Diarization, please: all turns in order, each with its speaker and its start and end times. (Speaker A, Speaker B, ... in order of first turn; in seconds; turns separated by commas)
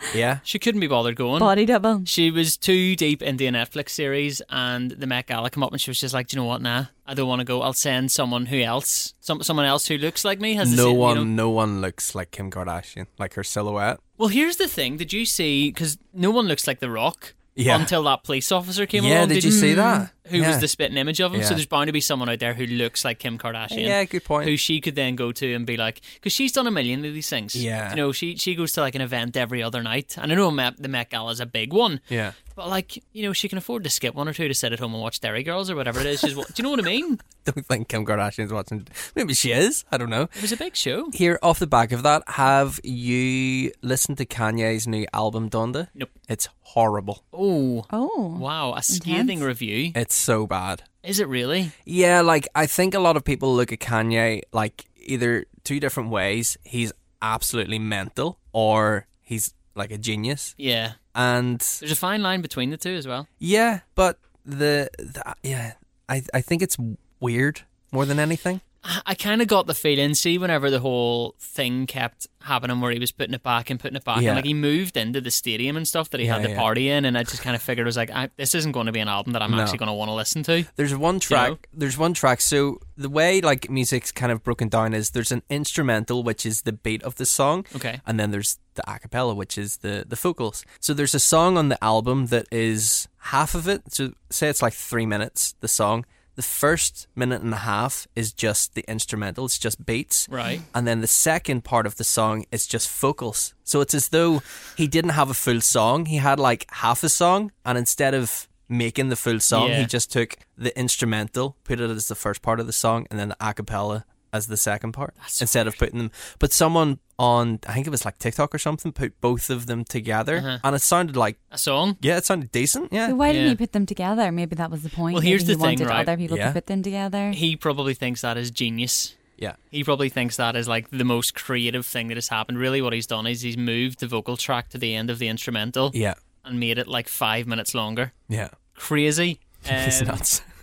Speaker A: 0.1-0.4, Speaker B: 0.4-1.5, Speaker C: 1.4-2.1, Speaker B: 2.0-11.3, Speaker A: 10.6-14.0, Speaker B: 14.2-37.2, Speaker A: 17.6-17.9, Speaker A: 18.9-20.6, Speaker C: 19.4-20.1, Speaker A: 21.3-21.6, Speaker A: 23.7-24.5, Speaker A: 27.5-28.0, Speaker A: 32.1-32.4, Speaker A: 37.4-40.4, Speaker B: 40.3-41.1, Speaker A: 41.1-47.2, Speaker B: 47.3-50.0, Speaker C: 47.9-49.4, Speaker A: 49.9-50.8, Speaker B: 51.0-51.7, Speaker A: 51.9-60.5, Speaker B: 60.6-61.0, Speaker A: 61.1-61.8, Speaker B: 61.8-63.3, Speaker A: 63.4-68.6, Speaker B: 68.8-80.7, Speaker A: 74.1-74.5, Speaker A: 76.2-76.7, Speaker A: 79.5-79.8, Speaker A: 80.7-121.4, Speaker B: 81.2-81.6, Speaker B: 87.7-88.0, Speaker B: 100.3-100.6, Speaker B: 109.5-109.9, Speaker B: 115.2-115.5, Speaker B: 120.3-120.6, Speaker B: 121.5-122.0, Speaker A: 122.0-123.2, Speaker C: 123.0-127.4, Speaker B: 123.3-123.6, Speaker B: 125.1-126.1, Speaker A: 126.2-126.6, Speaker B: 127.3-129.2, Speaker B: 129.7-138.1, Speaker A: 138.3-138.6, Speaker B: 138.7-140.2, Speaker A: 139.7-140.4